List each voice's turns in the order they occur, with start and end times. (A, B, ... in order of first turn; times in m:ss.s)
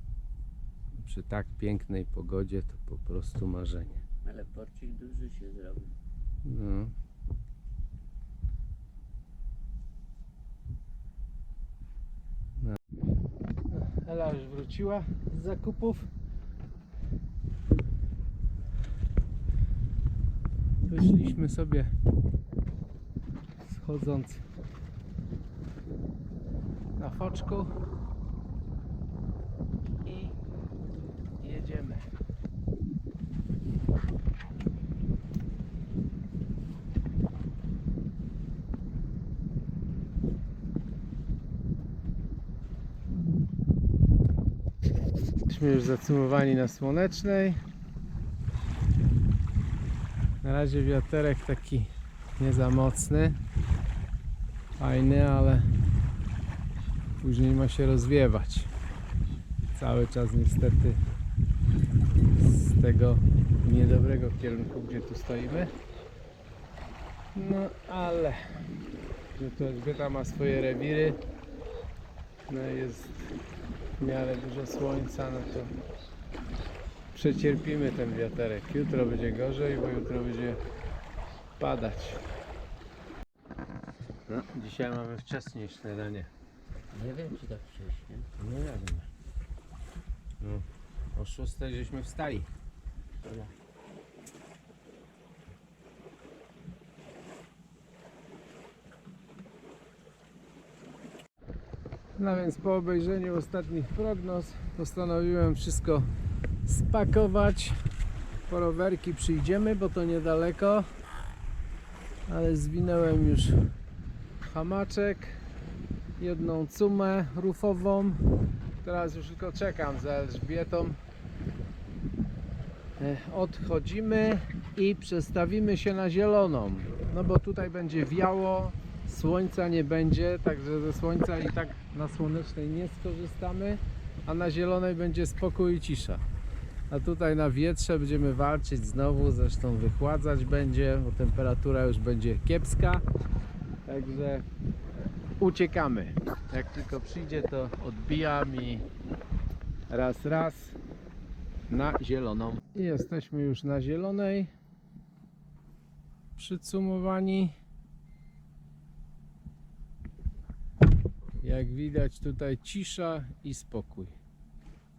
0:01.0-0:04.0 A
0:04.2-0:05.9 B
0:06.4-0:06.9 A
0:13.7-0:16.1 A
0:20.9-0:21.9 A
0:23.6-0:24.4 A
0:27.0-0:27.7 A
0:30.0-0:30.3 A
0:31.4-0:32.1 A
0:45.5-0:47.6 A
0:50.4-0:53.4 A
0:54.8-0:55.7 A
0:57.2-0:58.7 A
0:59.7-1:01.0 A
1:02.4-1:05.7 A
1:07.3-1:08.6 A
1:09.4-1:11.2 A
1:12.5-1:13.3 A
1:14.0-1:15.7 A
1:17.1-1:20.6 A
1:21.6-1:22.2 A
1:24.3-1:26.3 A
1:26.9-1:28.3 B
1:28.4-1:29.1 A
1:30.4-1:32.5 A
1:33.2-1:33.5 B
1:42.2-1:46.1 A
1:46.6-1:47.8 A
1:48.5-1:50.9 A
1:52.3-1:53.7 A
1:54.4-1:55.4 A
1:56.2-1:58.2 A
1:58.8-2:01.0 A
2:03.0-2:16.2 A
2:16.9-2:23.0 A
2:23.8-2:24.5 A
2:25.4-2:28.8 A
2:29.9-2:30.8 A
2:31.7-2:34.5 A
2:36.4-2:37.5 A
2:41.4-2:44.1 A